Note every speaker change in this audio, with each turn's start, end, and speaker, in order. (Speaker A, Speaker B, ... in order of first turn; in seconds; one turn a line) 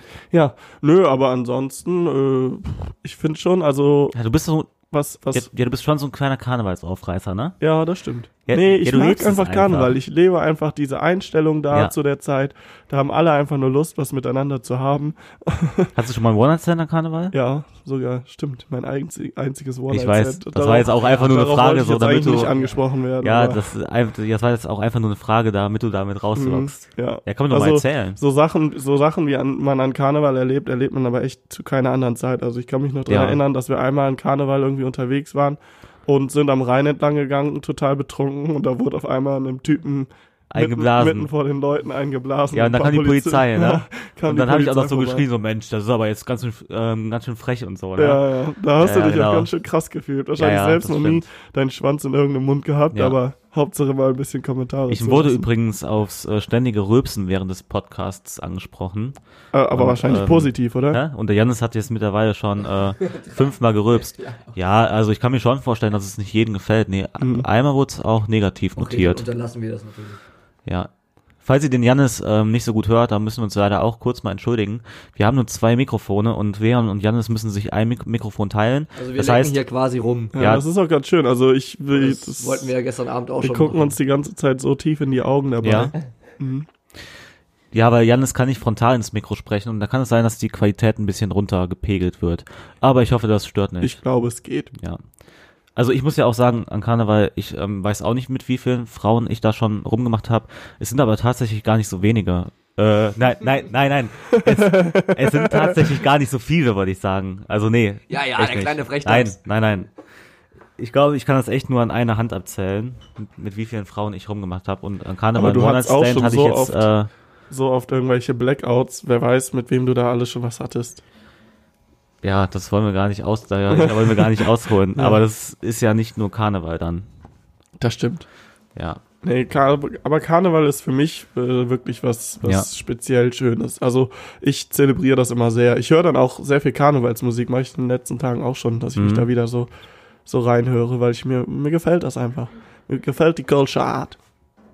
Speaker A: 0.3-4.2
Speaker B: 4.1-4.7
Speaker A: 4.9-5.5
Speaker B: 5.3-7.6
Speaker A: 7.6-15.9
Speaker B: 8.5-9.9
Speaker B: 15.9-17.4
Speaker A: 17.3-23.6
Speaker B: 19.9-22.5
Speaker C: 20.9-21.6
Speaker C: 22.1-22.8
Speaker B: 23.2-28.2
Speaker A: 26.4-45.2
Speaker B: 33.1-33.4
Speaker B: 40.5-41.3
Speaker B: 42.5-48.2
Speaker A: 48.0-55.5
Speaker B: 48.8-49.5
Speaker B: 50.4-51.3
Speaker B: 52.9-53.2
Speaker B: 54.9-59.2
Speaker A: 59.5-61.0
Speaker B: 59.7-69.2
Speaker C: 63.0-63.3
Speaker C: 63.9-64.5
Speaker A: 67.2-67.5
Speaker C: 68.8-70.2
Speaker B: 71.4-79.6
Speaker C: 78.9-80.3
Speaker A: 80.3-82.7
Speaker B: 80.3-80.6
Speaker C: 81.9-84.0
Speaker A: 83.4-86.7
Speaker B: 85.6-85.9
Speaker B: 87.7-94.0
Speaker A: 93.8-94.7
Speaker B: 94.8-95.0
Speaker B: 95.8-109.9
Speaker A: 104.3-105.9
Speaker C: 108.1-109.4
Speaker B: 110.8-117.1
Speaker A: 115.3-116.9
Speaker A: 117.5-121.0
Speaker B: 122.2-127.0
Speaker A: 123.7-124.3
Speaker A: 124.9-125.2
Speaker A: 127.8-128.2
Speaker B: 128.7-129.0
Speaker A: 129.2-139.7
Speaker B: 138.9-139.3
Speaker A: 140.2-144.2